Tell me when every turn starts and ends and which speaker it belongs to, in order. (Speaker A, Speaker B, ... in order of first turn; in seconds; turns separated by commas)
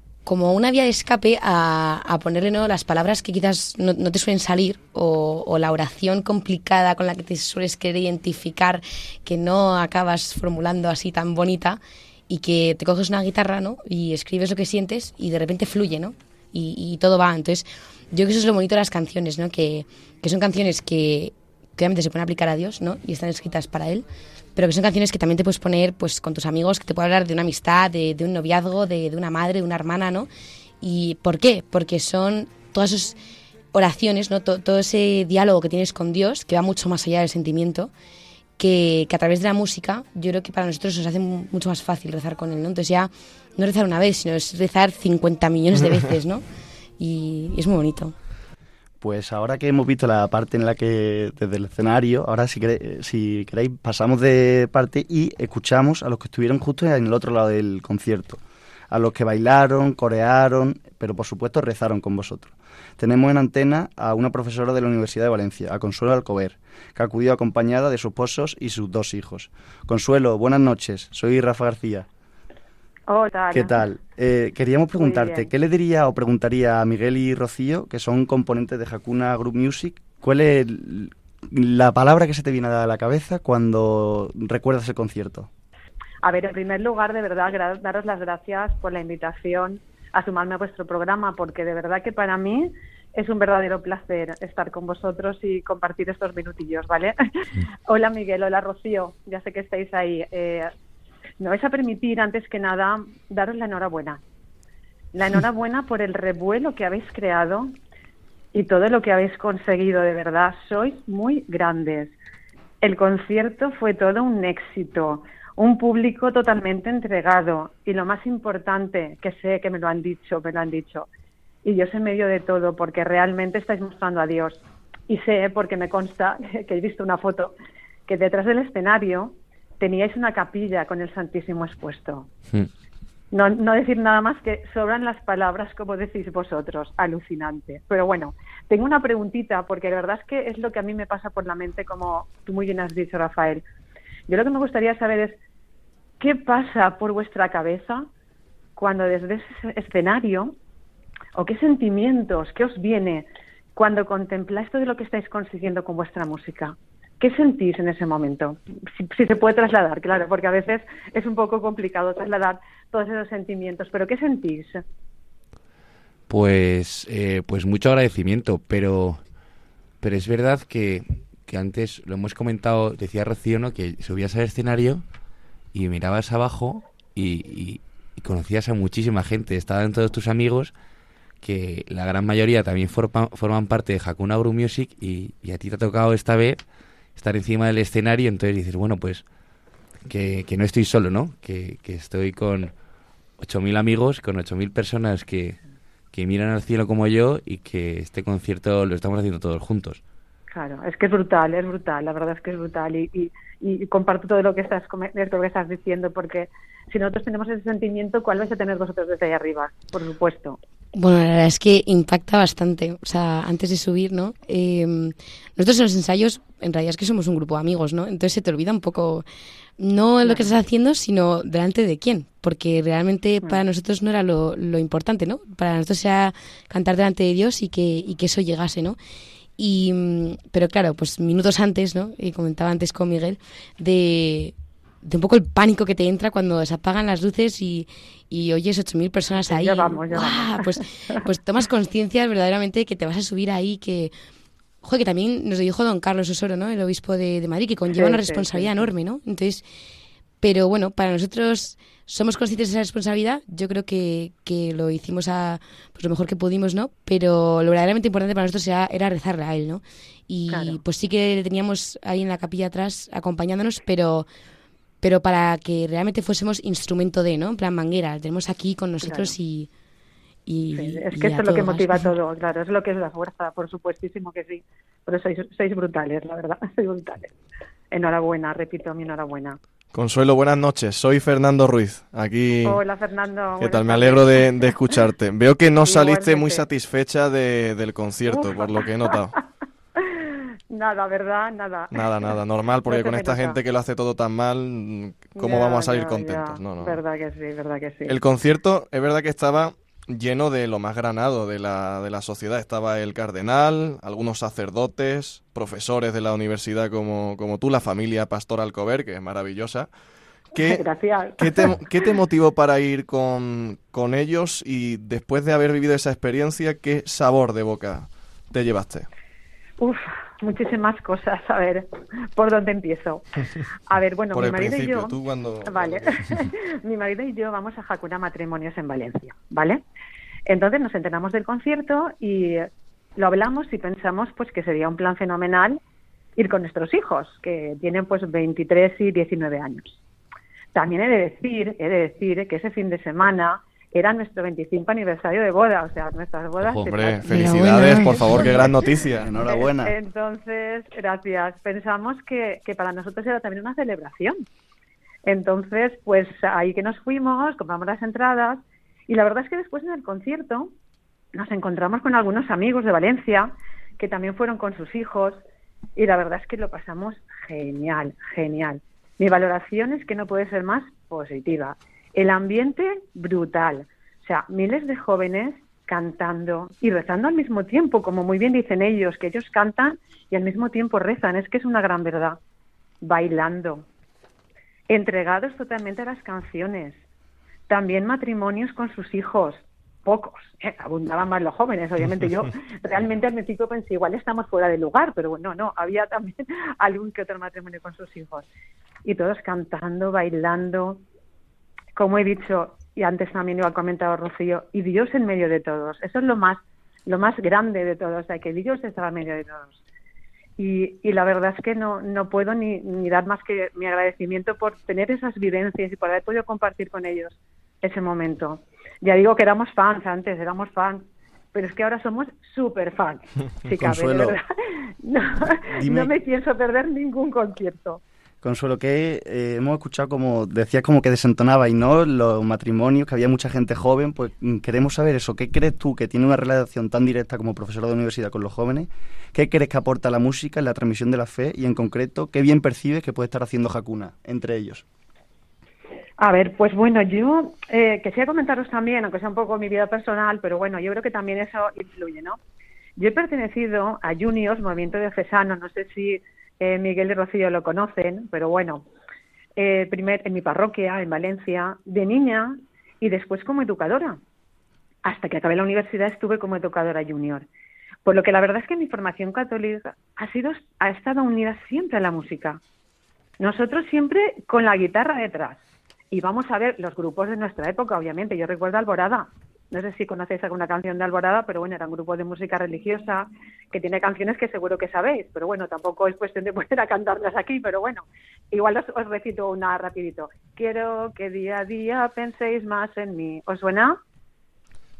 Speaker A: 0.2-24.0, Speaker A: 24.6-30.3, Speaker A: 30.8-33.2, Speaker A: 33.7-37.9, Speaker A: 38.6-46.4, Speaker A: 47.0-48.1, Speaker B: 49.0-72.1, Speaker C: 73.1-73.9, Speaker B: 73.5-85.5, Speaker C: 75.0-75.5, Speaker C: 86.2-97.2, Speaker C: 97.9-100.7, Speaker C: 101.4-104.2, Speaker C: 105.1-107.8, Speaker C: 108.5-112.1, Speaker C: 112.8-121.1, Speaker C: 121.6-127.5, Speaker C: 128.1-132.3, Speaker C: 133.3-143.6, Speaker C: 144.3-145.4, Speaker C: 146.2-148.1, Speaker C: 148.8-150.5, Speaker C: 151.3-164.8, Speaker D: 166.3-169.2, Speaker D: 170.0-175.0, Speaker D: 175.7-180.7, Speaker D: 181.4-186.6, Speaker D: 187.2-189.2, Speaker D: 190.1-192.7, Speaker D: 193.4-195.6, Speaker D: 196.1-200.0, Speaker C: 200.5-210.6, Speaker A: 210.9-219.2, Speaker A: 219.8-229.0, Speaker C: 220.2-220.5, Speaker A: 229.6-244.1, Speaker C: 239.5-241.2, Speaker A: 244.8-249.6, Speaker C: 247.9-248.9, Speaker A: 250.4-264.3, Speaker C: 260.5-260.8, Speaker A: 265.0-269.7, Speaker C: 269.0-269.3, Speaker A: 270.4-272.1, Speaker C: 270.7-277.3, Speaker C: 277.9-279.6, Speaker E: 279.9-282.8, Speaker C: 282.6-284.6, Speaker E: 283.6-289.3, Speaker C: 285.8-286.6, Speaker C: 288.3-289.1, Speaker C: 290.0-292.3, Speaker E: 291.9-297.0, Speaker C: 292.9-293.6, Speaker C: 295.4-298.2, Speaker E: 298.1-309.9, Speaker E: 310.5-310.8, Speaker C: 310.6-311.7, Speaker E: 311.4-319.1, Speaker C: 319.8-323.2, Speaker C: 323.9-329.8, Speaker E: 324.3-326.5, Speaker C: 330.5-335.8, Speaker C: 336.4-340.0, Speaker C: 340.7-347.4, Speaker E: 346.8-349.3, Speaker B: 348.4-349.9, Speaker C: 349.4-354.4, Speaker C: 355.2-360.7, Speaker C: 361.3-365.4, Speaker C: 365.9-382.4, Speaker C: 383.0-383.9, Speaker C: 384.9-387.0, Speaker C: 387.7-398.4, Speaker C: 399.0-401.0, Speaker C: 401.9-409.8, Speaker C: 410.6-424.4, Speaker B: 423.7-424.4, Speaker C: 425.0-428.0, Speaker B: 425.4-426.1, Speaker B: 428.4-444.8, Speaker C: 446.2-452.4, Speaker C: 453.0-458.8, Speaker C: 459.6-464.2, Speaker C: 465.0-467.4, Speaker C: 468.0-472.6, Speaker C: 473.4-494.0